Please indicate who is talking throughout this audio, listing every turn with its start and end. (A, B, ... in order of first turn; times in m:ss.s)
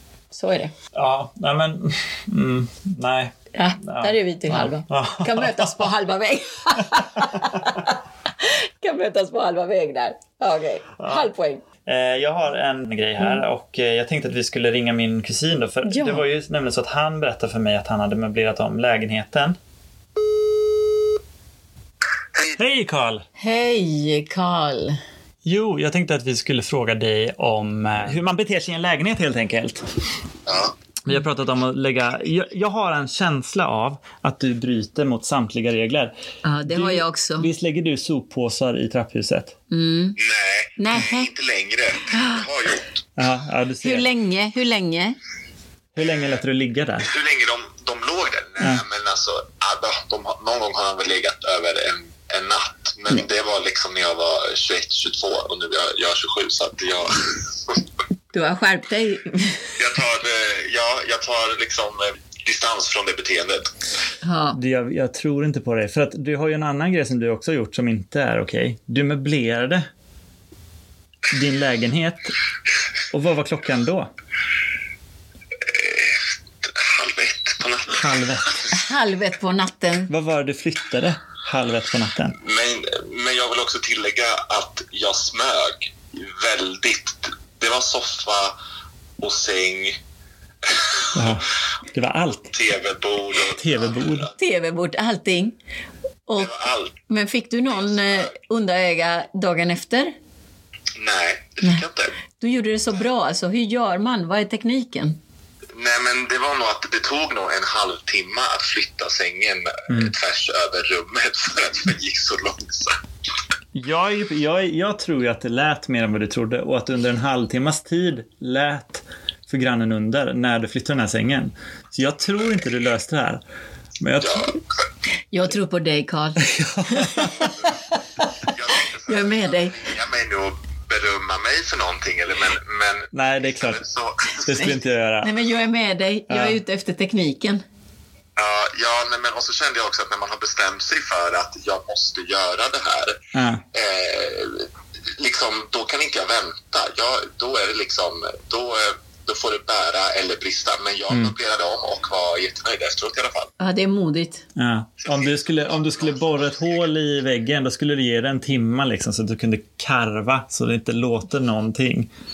0:00.3-0:00.7 A
0:00.9-0:05.9 B
0:03.5-0:11.6 A
0:07.2-0:07.7 B
0:11.0-0:11.3 B
0:11.8-0:19.6 B
0:15.8-0:16.2 A
0:22.5-0:23.2 B
0:23.4-0:25.0 A
0:25.4-0:29.9 B
0:30.5-0:30.7 C
0:31.0-0:36.1 B
0:36.4-0:37.5 A
0:36.6-0:39.6 B
0:39.7-0:40.2 A
0:40.2-0:43.0 C
0:40.8-0:41.3 A
0:42.1-0:42.4 A
0:43.2-0:44.1 B
0:43.8-0:45.2 A
0:45.9-0:47.1 B
0:47.0-0:57.8 C
0:58.3-0:59.7 A
0:59.8-1:03.7 C
1:04.2-1:04.6 A
1:04.5-1:09.9 B
1:11.3-1:12.4 B
1:13.1-1:14.1 B
1:15.6-1:18.8 C
1:17.9-1:18.6 B
1:18.7-1:20.1 A
1:20.1-1:22.4 B
1:22.4-1:28.5 C
1:29.2-1:30.0 C
1:30.6-1:31.4 C
1:31.1-1:32.5 B
1:32.5-1:34.3 C
1:33.5-1:34.3 B
1:34.4-1:35.6 A
1:36.3-1:36.5 A
1:36.3-1:37.0 C
1:37.1-1:40.1 A
1:37.8-1:38.3 C
1:41.0-1:42.1 C
1:42.4-1:45.2 A
1:45.7-1:53.0 C
1:49.9-1:50.1 B
1:53.7-2:03.4 B
2:04.0-2:04.5 B
2:04.2-2:04.8 C
2:05.3-2:08.2 A
2:06.4-2:07.5 B
2:08.5-2:14.8 C
2:09.0-2:09.8 A
2:13.1-2:13.8 B
2:14.4-2:15.3 B
2:15.2-2:17.6 A
2:16.3-2:16.6 B
2:18.4-2:23.2 C
2:23.3-2:23.6 B
2:23.7-2:24.7 C
2:25.2-2:33.5 C
2:31.1-2:31.3 B
2:33.6-2:34.4 A
2:34.6-2:42.1 B
2:35.0-2:36.6 C